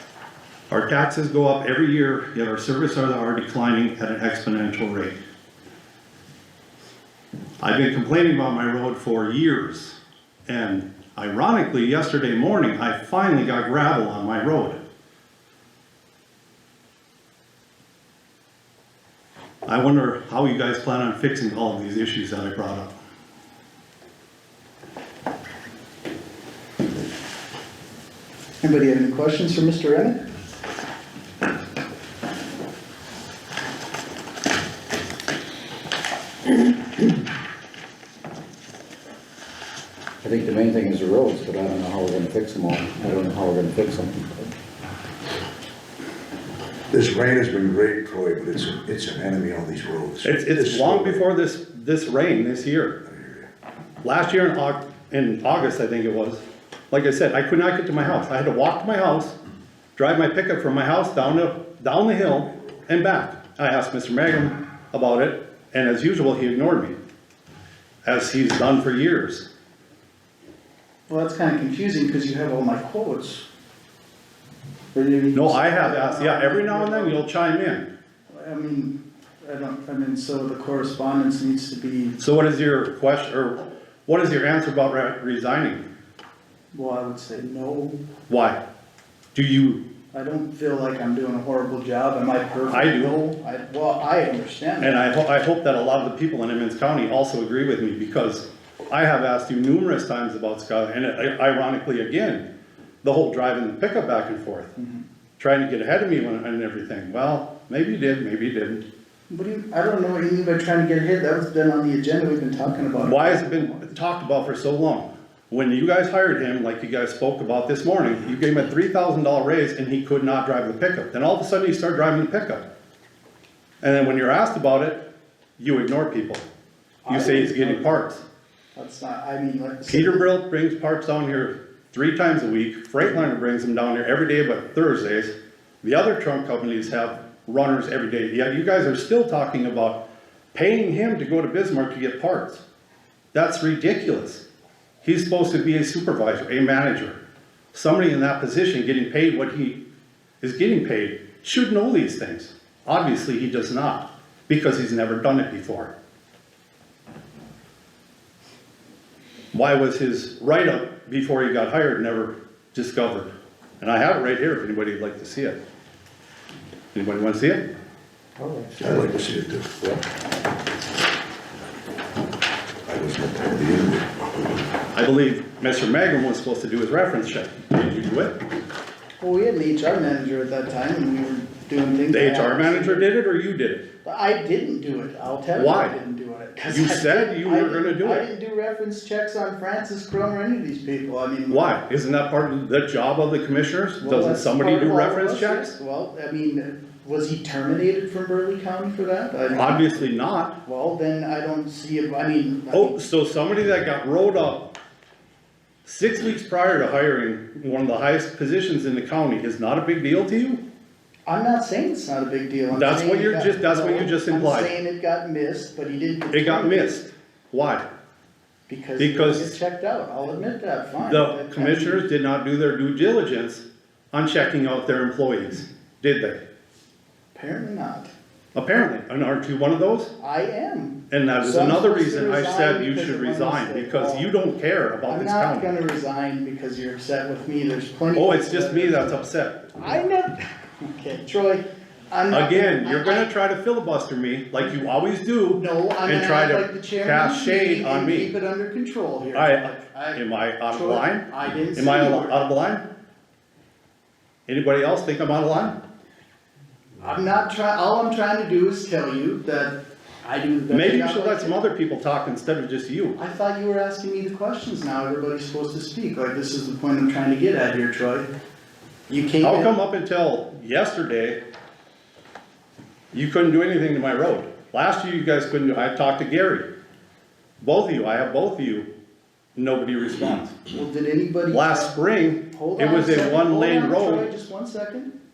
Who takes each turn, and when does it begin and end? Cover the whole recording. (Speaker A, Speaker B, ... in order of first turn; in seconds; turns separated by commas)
Speaker A: 0.7-5.1, Speaker A: 7.6-14.8, Speaker A: 19.6-22.9, Speaker B: 28.6-30.2, Speaker C: 40.2-44.5, Speaker D: 46.9-51.2, Speaker A: 50.2-53.0, Speaker D: 53.2-53.4, Speaker A: 54.0-59.4, Speaker A: 60.0-66.9, Speaker A: 68.0-69.4, Speaker B: 71.1-73.4, Speaker B: 74.9-77.2, Speaker A: 75.3-77.9, Speaker B: 78.3-82.2, Speaker A: 82.2-85.9, Speaker B: 86.7-88.0, Speaker A: 88.3-88.6, Speaker A: 89.3-89.8, Speaker B: 90.1-95.1, Speaker A: 92.7-93.2, Speaker A: 94.8-102.5, Speaker A: 103.0-104.7, Speaker A: 105.4-108.8, Speaker B: 109.3-113.8, Speaker A: 113.0-122.6, Speaker A: 123.8-125.0, Speaker A: 125.6-126.5, Speaker B: 127.0-127.9, Speaker A: 127.1-128.2, Speaker B: 128.8-130.3, Speaker A: 129.9-142.6, Speaker A: 143.3-144.4, Speaker A: 145.0-147.2, Speaker A: 147.7-149.8, Speaker A: 150.4-155.9, Speaker A: 159.5-165.6, Speaker A: 166.9-167.6, Speaker C: 168.4-168.8, Speaker D: 168.8-169.8, Speaker D: 172.8-174.4, Speaker A: 174.9-178.4, Speaker B: 179.2-183.1, Speaker A: 182.1-183.8, Speaker B: 184.0-191.7, Speaker A: 185.5-185.9, Speaker A: 186.7-188.2, Speaker A: 191.5-195.7, Speaker B: 194.0-200.1, Speaker A: 199.5-200.6, Speaker B: 200.6-203.1, Speaker A: 202.7-204.7, Speaker A: 205.8-210.6, Speaker B: 211.3-217.0, Speaker A: 212.7-214.7, Speaker A: 216.3-217.9, Speaker B: 218.7-222.1, Speaker A: 219.0-219.6, Speaker A: 221.1-226.4, Speaker B: 227.3-228.1, Speaker A: 228.5-230.1, Speaker B: 230.2-234.3, Speaker A: 231.1-235.7, Speaker B: 235.1-239.2, Speaker A: 238.1-239.7, Speaker B: 239.8-243.3, Speaker A: 242.3-248.3, Speaker B: 245.6-252.3, Speaker A: 249.3-252.8, Speaker A: 254.5-255.8, Speaker B: 257.0-261.6, Speaker A: 260.7-263.2, Speaker B: 263.2-268.3, Speaker B: 269.1-269.7, Speaker A: 269.4-271.4, Speaker A: 273.1-276.6, Speaker A: 277.6-278.9, Speaker A: 279.6-280.6, Speaker B: 280.7-281.9, Speaker A: 281.5-284.3, Speaker B: 282.5-285.1